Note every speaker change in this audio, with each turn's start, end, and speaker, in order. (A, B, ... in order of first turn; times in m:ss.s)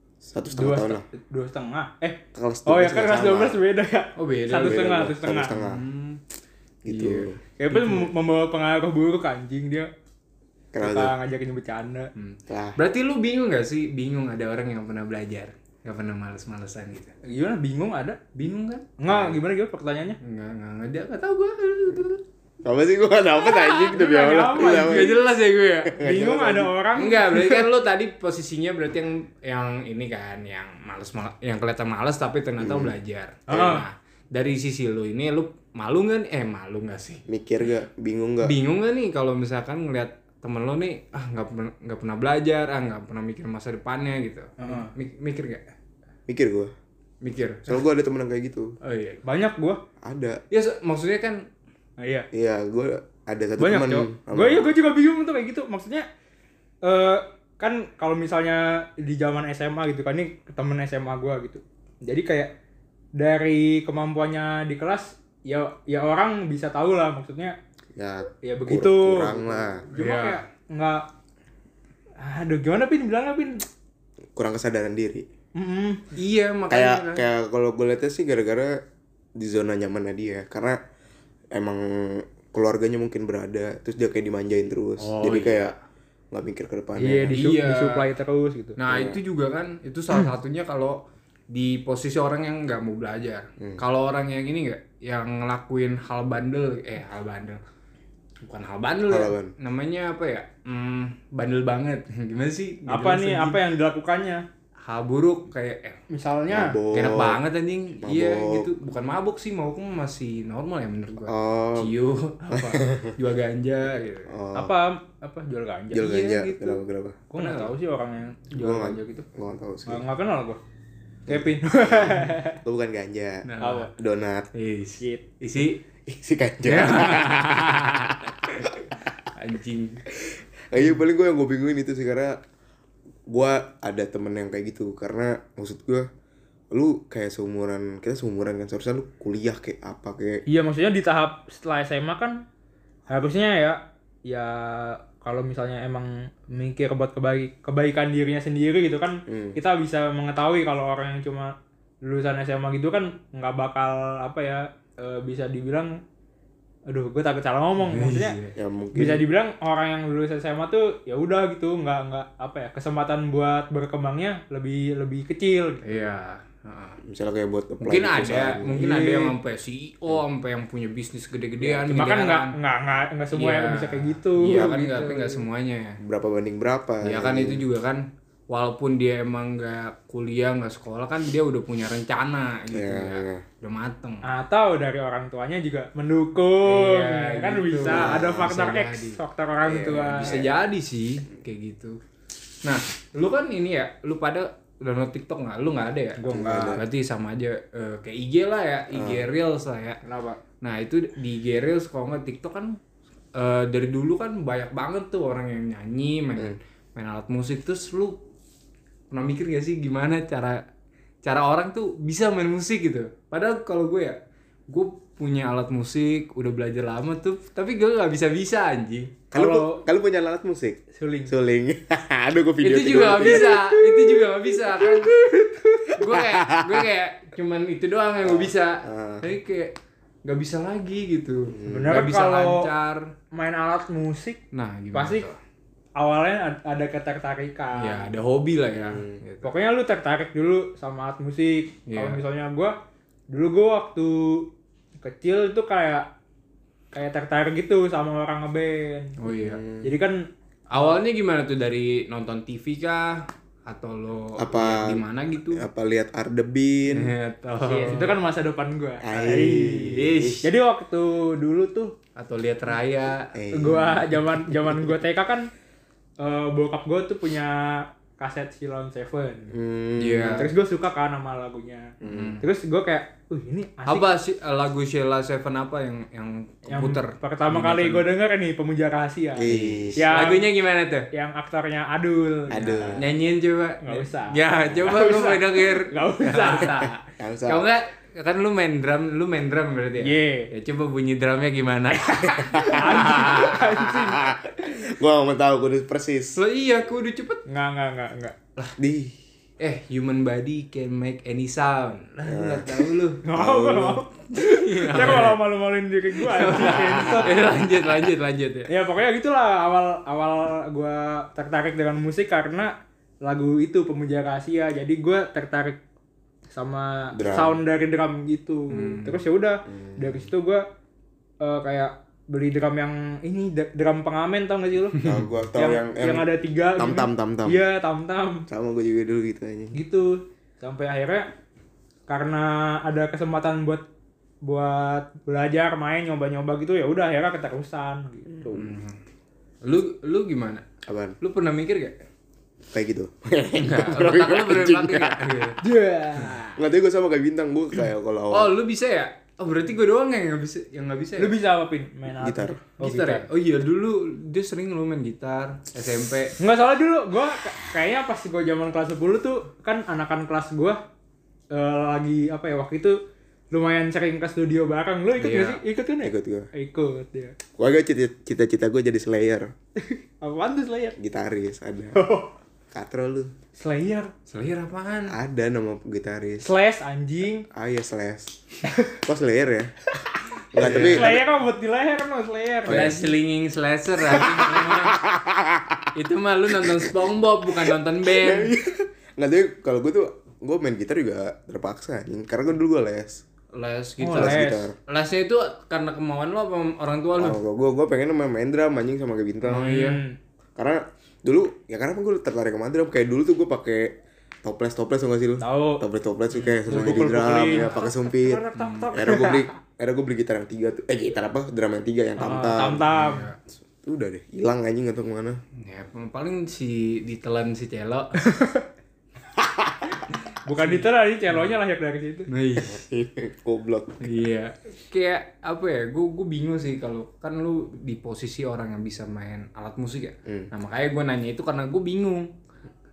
0:00.2-0:01.0 A
0:00.5-0:05.5 B
0:02.3-0:03.6 A
0:04.2-0:06.2 C
0:04.6-0:05.8 A
0:06.8-0:08.0 A
0:06.9-0:07.3 C
0:07.6-0:09.9 B
0:10.7-0:11.1 A
0:10.8-0:12.1 B
0:12.2-0:17.1 C
0:12.5-0:12.8 A
0:17.2-0:18.2 B
0:18.3-0:19.3 C
0:19.0-0:20.2 B
0:20.2-0:22.2 C
0:22.6-0:25.2 A
0:23.4-0:24.0 C
0:23.9-0:25.2 B
0:24.5-0:25.9 C
0:25.8-0:26.8 A
0:26.0-0:27.6 B
0:27.0-0:37.2 C
0:32.6-0:33.0 A
0:33.5-0:33.8 B
0:37.3-0:38.6 A
0:38.4-0:45.6 C
0:44.6-0:44.9 B
0:46.3-0:46.7 A
0:47.2-0:47.8 C
0:47.7-0:48.8 A
0:48.8-0:49.2 C
0:49.2-0:49.8 B
0:50.0-0:50.4 A
0:50.5-0:51.5 C
0:52.0-0:52.3 B
0:52.3-0:54.7 A
0:53.6-0:56.1 B
0:56.8-1:02.5 B
1:03.2-1:07.6 B
1:08.0-1:09.8 A
1:08.4-1:11.1 B
1:09.9-1:10.4 C
1:12.2-1:13.6 B
1:14.4-1:15.3 A
1:15.6-1:16.1 B
1:16.1-1:17.2 C
1:16.7-1:18.8 A
1:19.4-1:20.8 A
1:21.5-1:25.8 A
1:25.0-1:25.5 B
1:25.2-1:25.6 C
1:26.3-1:27.5 A
1:27.0-1:28.8 B
1:27.3-1:28.1 C
1:28.8-1:37.6 C
1:28.9-1:29.2 A
1:38.4-1:43.6 C
1:39.1-1:39.5 A
1:42.9-1:44.4 B
1:44.8-1:46.0 C
1:46.1-1:46.8 B
1:46.5-1:47.4 A
1:46.9-1:54.4 C
1:48.0-1:48.7 A
1:51.3-1:52.0 A
1:52.5-1:53.1 A
1:54.3-1:54.7 A
1:54.5-1:56.1 B
1:55.9-1:57.2 A
1:56.0-1:56.8 C
1:57.3-1:59.3 B
1:57.4-1:57.7 C
1:58.6-2:00.0 A
1:59.9-2:00.6 B
2:01.3-2:03.4 A
2:01.3-2:02.6 B
2:03.4-2:03.9 C
2:03.6-2:03.9 B
2:04.0-2:04.5 A
2:04.5-2:05.8 C
2:06.1-2:07.5 A
2:06.7-2:08.8 C
2:09.3-2:10.0 C
2:10.2-2:12.4 A
2:13.3-2:16.1 A
2:16.7-2:20.4 A
2:20.5-2:22.4 B
2:23.1-2:31.5 B
2:29.3-2:29.6 A
2:32.0-2:36.0 B
2:36.9-2:38.4 B
2:37.8-2:38.6 C
2:38.6-2:39.2 A
2:39.0-2:45.8 B
2:45.8-2:47.0 C
2:47.0-2:49.3 A
2:47.8-2:52.5 C
2:51.9-2:55.4 B
2:53.3-2:56.0 C
2:56.0-2:57.6 A
2:57.0-3:04.3 C
3:02.7-3:03.4 A
3:04.2-3:10.4 B
3:06.6-3:09.2 C
3:07.9-3:08.5 A
3:09.6-3:10.5 A
3:10.1-3:12.0 C
3:12.6-3:20.0 C
3:16.2-3:16.8 B
3:16.3-3:16.8 A
3:18.9-3:19.3 A
3:20.0-3:20.4 B
3:20.6-3:22.8 C
3:23.3-3:28.2 C
3:29.1-3:30.6 C
3:31.2-3:39.2 C
3:39.3-3:43.7 A
3:39.3-3:39.8 B
3:40.9-3:41.3 B
3:42.6-3:45.1 C
3:43.5-3:44.0 B
3:45.0-3:45.9 B
3:46.0-3:53.1 C
3:46.0-3:46.9 A
3:48.2-3:49.3 A
3:51.5-3:52.1 A
3:51.7-3:52.7 B
3:53.3-3:54.4 B
3:54.5-3:55.4 C
3:54.9-3:55.3 B
3:56.0-3:58.1 B
3:57.8-3:59.6 C
3:58.7-3:59.2 A
3:59.4-4:02.8 B
4:01.9-4:02.2 C
4:03.3-4:04.5 B
4:05.0-4:06.1 B
4:06.9-4:09.2 B
4:09.2-4:09.6 C
4:09.3-4:09.9 A
4:09.8-4:10.2 B
4:10.7-4:15.6 C
4:14.4-4:17.1 A
4:16.9-4:18.2 C
4:17.6-4:22.0 B
4:19.0-4:20.4 A
4:19.8-4:20.5 C
4:22.2-4:23.3 C
4:23.3-4:24.9 A
4:23.5-4:25.5 B
4:26.2-4:29.5 B
4:29.5-4:30.5 A
4:30.0-4:30.5 C
4:30.4-4:34.1 B
4:32.0-4:32.4 A
4:32.0-4:32.4 C
4:33.9-4:38.1 C
4:36.7-4:40.5 B
4:39.4-4:40.4 A
4:39.5-4:41.1 C
4:41.1-4:43.0 B
4:42.5-4:43.1 A
4:43.0-4:53.6 C
4:43.8-4:47.0 B
4:47.1-4:47.7 A
4:50.0-4:50.5 B
4:52.1-4:54.3 B
4:52.2-4:56.4 A
4:56.3-4:57.4 C
4:57.5-4:58.4 B
4:58.8-4:59.2 A
4:59.6-5:03.2 C
5:02.2-5:04.0 A
5:03.2-5:07.4 B
5:04.3-5:05.4 C
5:06.2-5:08.7 C
5:08.7-5:12.7 B
5:13.2-5:15.8 B
5:16.5-5:20.6 B
5:17.1-5:17.6 A
5:18.7-5:19.2 C
5:19.7-5:20.3 A
5:21.4-5:28.5 B
5:25.0-5:27.6 A
5:28.5-5:29.8 A
5:29.7-5:31.3 B
5:32.1-5:33.8 B
5:34.4-5:38.7 B
5:38.5-5:39.0 C
5:39.6-5:40.6 C
5:40.9-5:41.2 A
5:41.2-5:42.0 C
5:42.7-5:45.3 A
5:43.6-5:45.6 C
5:45.6-5:46.6 B
5:46.6-5:48.5 A
5:48.3-5:51.4 C
5:51.2-5:53.3 B
5:52.2-5:52.6 A
5:52.8-5:56.4 C
5:56.4-6:00.8 B
6:01.5-6:03.0 B
6:03.5-6:07.4 B
6:05.2-6:05.6 C
6:06.0-6:06.5 A
6:07.6-6:09.5 A
6:09.9-6:11.0 B
6:11.0-6:12.0 A
6:12.0-6:12.3 B
6:12.7-6:13.3 A
6:13.6-6:14.1 B
6:14.3-6:15.2 C
6:15.1-6:16.5 A
6:16.4-6:17.5 B
6:17.5-6:19.7 A
6:20.5-6:21.2 A
6:20.6-6:21.2 C
6:20.6-6:22.9 B
6:22.7-6:23.1 A
6:22.7-6:25.0 C
6:24.1-6:25.9 A
6:26.0-6:28.5 C
6:26.6-6:27.0 A
6:27.7-6:33.2 A
6:33.5-6:37.4 C
6:34.0-6:34.7 B
6:34.1-6:34.8 A
6:37.2-6:39.9 A
6:39.5-6:40.0 C
6:39.5-6:40.2 B
6:40.6-6:52.9 A
6:45.4-6:45.8 B
6:46.3-6:46.6 C
6:46.7-6:49.5 B
6:48.6-6:48.9 C
6:52.2-6:53.3 B
6:52.9-6:53.4 C
6:53.7-6:55.4 A
6:55.6-6:58.2 C
6:58.2-6:58.6 B
6:59.4-6:59.9 A
7:00.5-7:02.3 B
7:00.5-7:01.5 C
7:02.3-7:02.8 C
7:02.6-7:04.1 A
7:04.0-7:12.3 C